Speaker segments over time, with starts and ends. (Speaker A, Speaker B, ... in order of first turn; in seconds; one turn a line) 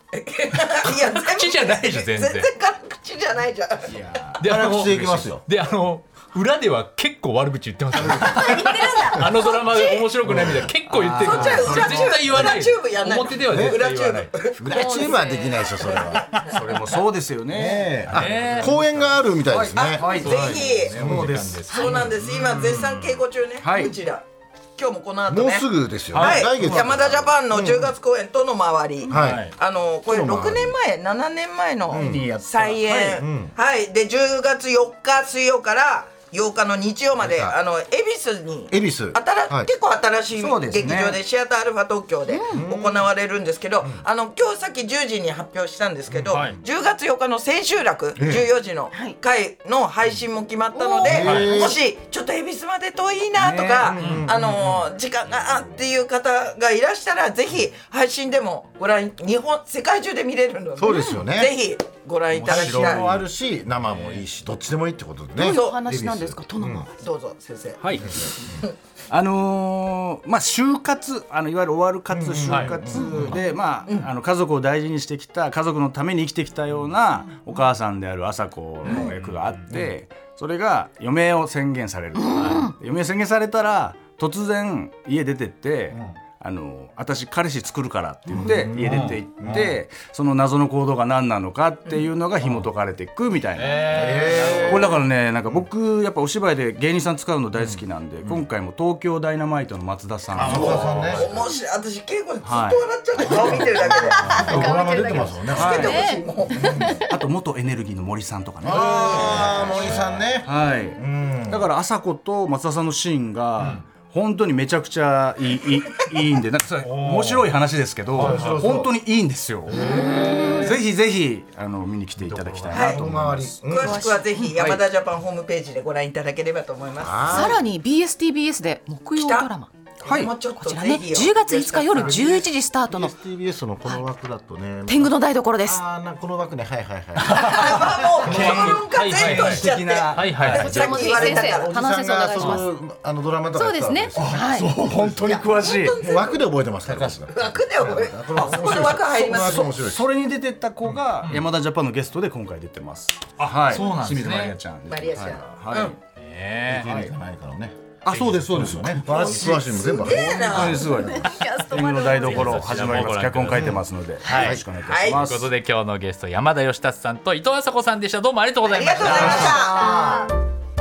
Speaker A: 0.1-4.0
Speaker B: 0.8-2.5
Speaker C: 3.9-4.4
Speaker D: 4.4-5.5
Speaker B: 4.4-14.3
Speaker D: 8.0-8.4
Speaker E: 8.3-10.0
Speaker D: 10.2-10.7
Speaker C: 10.9-12.2
Speaker A: 11.2-15.1
Speaker D: 13.5-13.8
Speaker D: 14.6-16.4
Speaker E: 14.7-16.2
Speaker A: 15.8-16.5
Speaker C: 16.4-21.9
Speaker D: 17.5-21.5
Speaker B: 18.1-18.8
Speaker B: 20.1-23.1
Speaker A: 20.1-21.0
Speaker E: 21.7-22.0
Speaker A: 21.7-24.2
Speaker C: 23.6-23.9
Speaker A: 24.8-63.1
Speaker D: 25.3-27.9
Speaker C: 26.1-27.3
Speaker D: 29.1-29.5
Speaker C: 29.1-29.5
Speaker D: 30.1-30.8
Speaker D: 31.9-32.3
Speaker C: 31.9-33.2
Speaker D: 33.2-33.5
Speaker D: 37.2-37.5
Speaker D: 38.7-39.7
Speaker C: 40.4-41.2
Speaker E: 42.3-42.6
Speaker D: 42.5-43.1
Speaker D: 46.1-46.6
Speaker B: 46.3-46.6
Speaker D: 48.2-48.5
Speaker E: 48.9-49.2
Speaker E: 50.7-51.3
Speaker D: 51.0-51.8
Speaker B: 51.2-51.5
Speaker C: 53.4-53.9
Speaker D: 53.8-54.9
Speaker B: 54.0-54.3
Speaker D: 60.8-61.5
Speaker E: 60.8-61.3
Speaker C: 62.3-63.2
Speaker D: 62.4-66.9
Speaker B: 63.9-64.2
Speaker E: 65.4-66.9
Speaker A: 65.4-65.8
Speaker A: 67.0-68.7
Speaker C: 67.8-68.2
Speaker C: 69.1-101.1
Speaker D: 72.1-73.3
Speaker B: 72.5-73.2
Speaker E: 72.9-73.5
Speaker B: 79.0-79.6
Speaker E: 82.3-82.7
Speaker B: 82.3-82.7
Speaker B: 85.9-86.2
Speaker D: 88.3-89.8
Speaker B: 88.7-89.7
Speaker B: 93.6-95.0
Speaker D: 93.9-95.0
Speaker D: 100.3-101.3
Speaker B: 100.4-101.5
Speaker A: 100.4-107.0
Speaker C: 102.4-104.0
Speaker D: 103.2-107.0
Speaker E: 103.9-107.2
Speaker B: 104.3-105.3
Speaker C: 105.4-106.0
Speaker C: 107.0-119.8
Speaker D: 108.6-111.7
Speaker A: 108.7-109.7
Speaker B: 109.4-110.3
Speaker B: 113.6-113.8
Speaker B: 116.8-117.5
Speaker B: 118.2-118.8
Speaker D: 118.2-118.9
Speaker B: 119.7-120.0
Speaker A: 119.8-120.2
Speaker D: 119.8-120.1
Speaker E: 119.8-120.7
Speaker C: 120.5-123.7
Speaker B: 122.2-123.0
Speaker A: 122.7-123.0
Speaker D: 122.8-124.0
Speaker A: 123.6-127.5
Speaker E: 123.8-124.5
Speaker C: 124.5-124.8
Speaker D: 127.0-127.6
Speaker E: 127.2-129.7
Speaker A: 129.1-129.5
Speaker A: 130.0-132.5
Speaker C: 130.1-130.3
Speaker E: 130.6-133.2
Speaker D: 132.0-137.9
Speaker E: 134.9-135.8
Speaker C: 137.2-141.0
Speaker A: 137.3-141.8
Speaker B: 138.2-141.3
Speaker E: 140.5-142.7
Speaker D: 141.3-150.1
Speaker E: 143.5-144.7
Speaker C: 144.2-146.0
Speaker A: 145.2-146.5
Speaker C: 146.8-147.2
Speaker A: 147.3-149.8
Speaker C: 148.3-156.0
Speaker B: 153.4-154.6
Speaker A: 154.9-156.0
Speaker D: 155.2-155.4
Speaker B: 156.2-157.0
Speaker D: 156.7-161.4
Speaker C: 158.1-159.6
Speaker B: 158.1-158.5
Speaker E: 159.1-162.7
Speaker A: 159.2-160.9
Speaker C: 160.4-165.5
Speaker B: 162.1-169.6
Speaker D: 164.3-164.6
Speaker A: 164.8-165.3
Speaker A: 168.7-170.2
Speaker D: 169.0-170.3
Speaker E: 169.3-170.3